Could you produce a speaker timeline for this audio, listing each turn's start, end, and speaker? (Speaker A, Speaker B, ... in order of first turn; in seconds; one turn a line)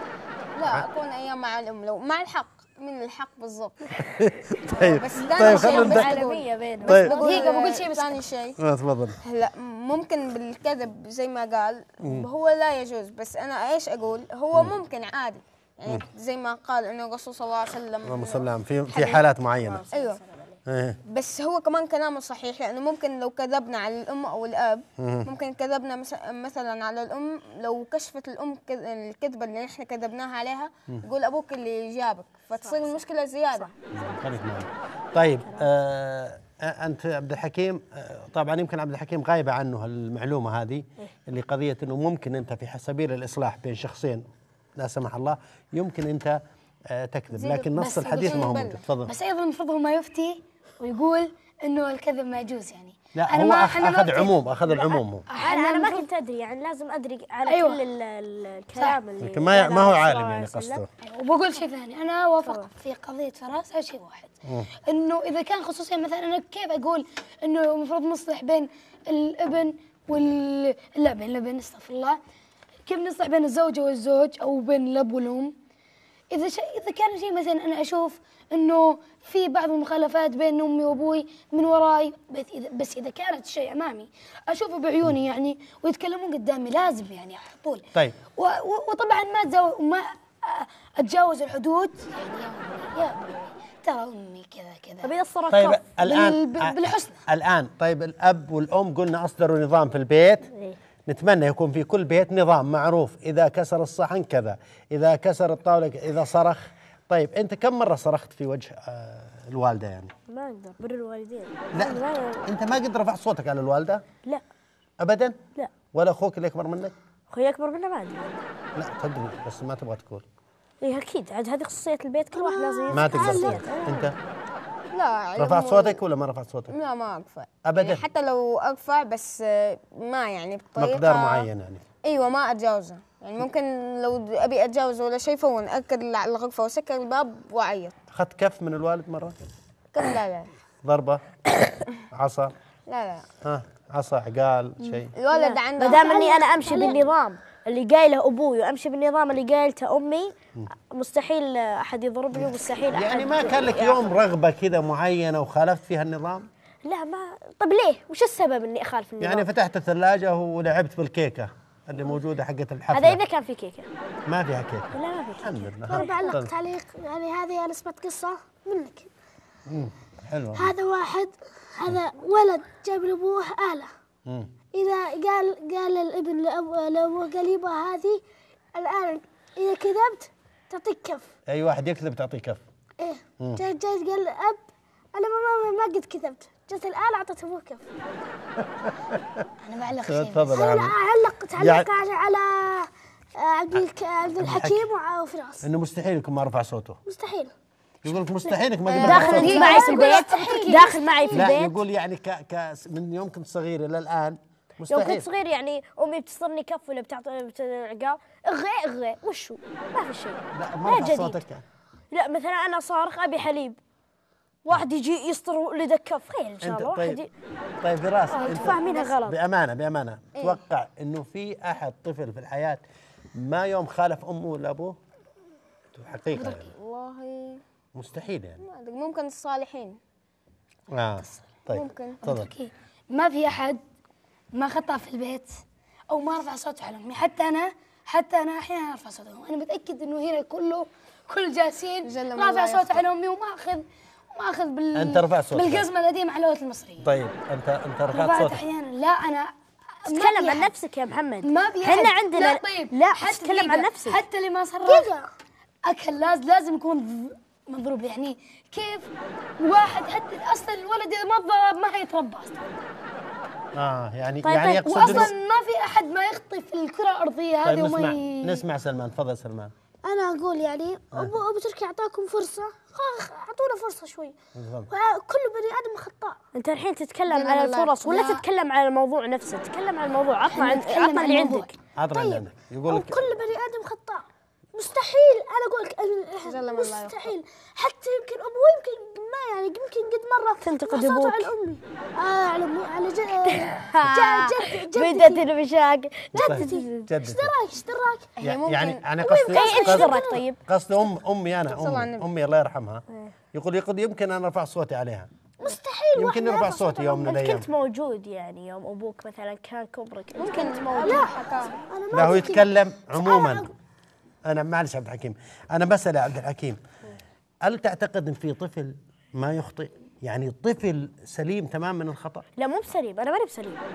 Speaker A: 0.5-4.0
Speaker B: 4.0-6.2
Speaker A: 4.8-8.6
Speaker C: 5.2-7.2
Speaker B: 6.9-7.2
Speaker D: 7.1-8.3
Speaker B: 8.6-9.2
Speaker A: 9.2-20.2
Speaker B: 18.1-19.9
Speaker C: 19.8-20.6
Speaker B: 20.7-21.0
Speaker A: 21.1-33.7
Speaker B: 25.0-25.3
Speaker C: 32.6-33.0
Speaker C: 33.5-34.3
Speaker B: 34.0-44.2
Speaker B: 44.8-46.4
Speaker B: 46.9-49.1
Speaker D: 47.4-54.3
Speaker A: 48.1-48.8
Speaker B: 53.1-55.3
Speaker C: 54.7-60.8
Speaker D: 55.3-56.1
Speaker D: 57.5-57.8
Speaker B: 59.2-60.9
Speaker D: 61.0-72.2
Speaker D: 72.9-75.5
Speaker D: 76.3-87.8
Speaker D: 88.3-95.1
Speaker C: 95.0-95.8
Speaker B: 95.5-100.5
Speaker D: 96.0-97.2
Speaker B: 101.1-110.1
Speaker C: 110.3-112.5
Speaker B: 111.7-114.0
Speaker B: 115.0-115.4
Speaker B: 115.9-117.0
Speaker C: 117.3-118.4
Speaker B: 118.8-120.2
Speaker C: 120.8-124.2
Speaker B: 122.9-124.2
Speaker D: 123.1-123.7
Speaker A: 124.9-126.0
Speaker B: 125.4-126.8
Speaker A: 126.7-131.5
Speaker B: 127.7-128.0
Speaker B: 130.8-131.8
Speaker A: 132.0-137.9
Speaker B: 138.1-139.3
Speaker A: 139.9-140.5
Speaker B: 140.8-141.2
Speaker B: 142.1-142.5
Speaker A: 142.9-143.3
Speaker B: 143.4-145.1
Speaker A: 144.8-147.0
Speaker C: 145.3-150.3
Speaker C: 150.9-154.2
Speaker B: 152.3-156.5
Speaker C: 156.8-159.5
Speaker B: 159.2-163.2
Speaker C: 162.9-163.9
Speaker B: 164.3-166.5
Speaker C: 164.9-166.4
Speaker D: 165.9-166.4
Speaker E: 166.1-168.4
Speaker C: 168.6-169.1
Speaker B: 169.7-170.7
Speaker E: 170.6-173.9
Speaker E: 174.8-178.2
Speaker E: 178.8-181.2
Speaker B: 181.5-182.6
Speaker E: 183.0-184.6
Speaker E: 185.2-187.8
Speaker B: 188.6-189.4
Speaker D: 189.6-190.7
Speaker B: 190.1-191.0
Speaker E: 190.6-192.9
Speaker B: 191.6-191.9
Speaker E: 193.4-195.6
Speaker B: 193.7-194.9
Speaker B: 195.6-197.0
Speaker E: 197.1-197.5
Speaker B: 198.0-199.8
Speaker D: 198.9-200.9
Speaker C: 198.9-201.8
Speaker E: 199.6-200.0
Speaker E: 200.8-201.4
Speaker B: 201.3-205.3
Speaker C: 204.9-211.4
Speaker B: 210.5-211.6
Speaker C: 212.1-213.8
Speaker C: 214.7-217.3
Speaker B: 216.6-217.2
Speaker B: 217.8-222.8
Speaker C: 218.3-219.4
Speaker D: 218.4-218.8
Speaker B: 223.3-225.0
Speaker B: 225.9-226.7
Speaker D: 226.3-226.7
Speaker A: 226.8-227.6
Speaker B: 227.9-228.6
Speaker A: 228.6-230.0
Speaker B: 230.9-232.5
Speaker A: 231.7-232.2
Speaker D: 232.2-233.8
Speaker D: 234.5-247.2
Speaker A: 242.0-243.0
Speaker B: 244.9-245.9
Speaker B: 247.0-248.6
Speaker D: 248.1-249.5
Speaker D: 250.0-250.7
Speaker C: 250.1-254.2
Speaker D: 251.4-255.1
Speaker C: 254.9-255.1
Speaker D: 255.9-262.7
Speaker B: 263.8-265.3
Speaker C: 264.4-265.3
Speaker D: 264.9-268.6
Speaker B: 267.6-269.7
Speaker E: 270.0-274.3
Speaker B: 274.6-274.9
Speaker E: 274.9-276.4
Speaker C: 276.5-281.7
Speaker A: 277.3-278.0
Speaker D: 280.5-281.7
Speaker B: 282.0-283.2
Speaker E: 282.2-295.1
Speaker A: 286.4-287.3
Speaker C: 290.6-291.5
Speaker C: 293.5-297.1
Speaker D: 295.1-295.4
Speaker B: 296.3-297.5
Speaker E: 296.4-298.3
Speaker A: 298.4-299.1
Speaker B: 298.4-305.3
Speaker E: 299.4-300.4
Speaker C: 299.5-300.6
Speaker A: 301.7-302.3
Speaker E: 305.6-307.1
Speaker B: 306.1-307.7
Speaker C: 307.1-311.2
Speaker A: 310.4-311.8
Speaker D: 311.0-311.3
Speaker D: 312.0-312.6
Speaker B: 312.1-313.7
Speaker E: 313.2-313.7
Speaker B: 314.5-316.8
Speaker B: 317.6-322.5
Speaker C: 322.6-323.8